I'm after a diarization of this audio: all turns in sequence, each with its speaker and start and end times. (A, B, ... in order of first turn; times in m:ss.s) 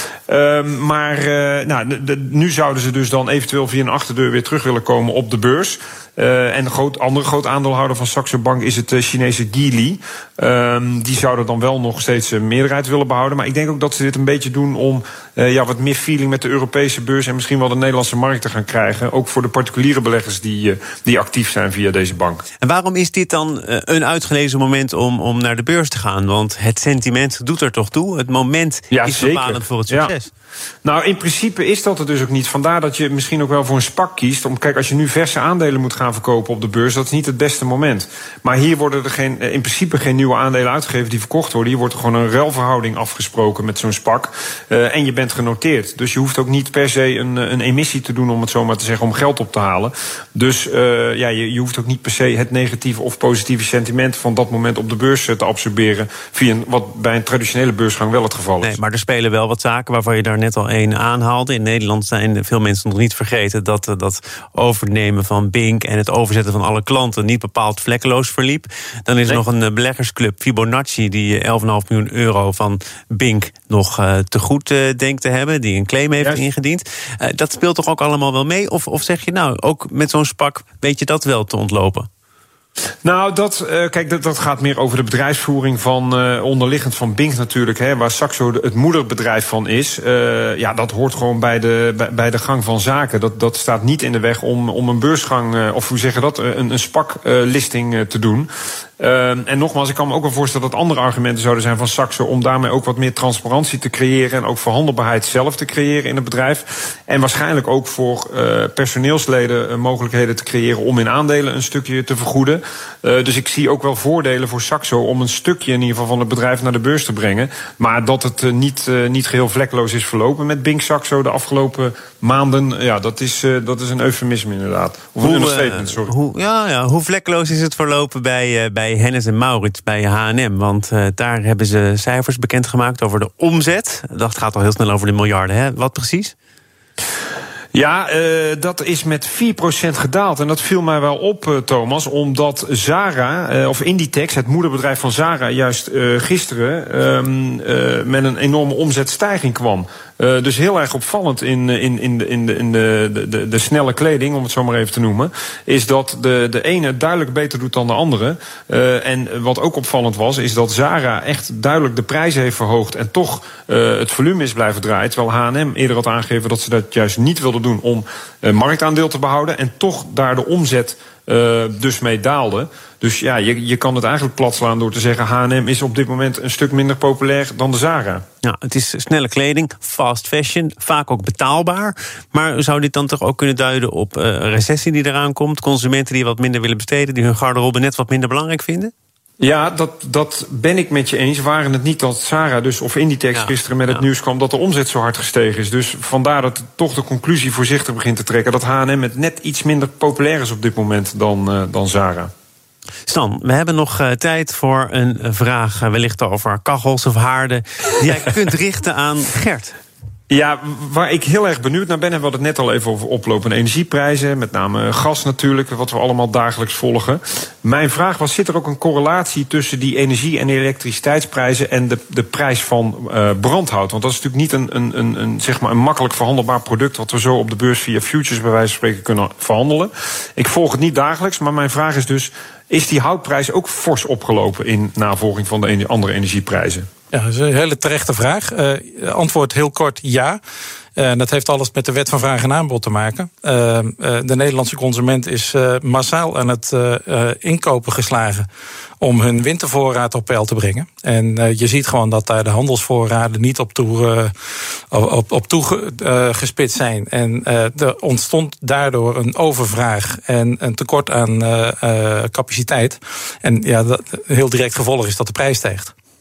0:00.3-0:22.4 A
0:22.6-0:30.3 B
0:28.9-0:30.1 A
0:30.8-0:58.8 A
0:58.6-1:22.1 B
1:23.0-2:06.1 A
2:05.2-2:16.3 B
2:17.7-2:58.2 A
2:58.4-3:08.9 B
3:09.4-3:22.3 A
3:13.4-3:14.0 B
3:23.0-3:29.7 B
3:30.3-3:56.9 A
3:57.1-4:00.4 C
4:01.0-4:08.5 C
4:09.0-4:14.3 C
4:14.9-4:25.9 C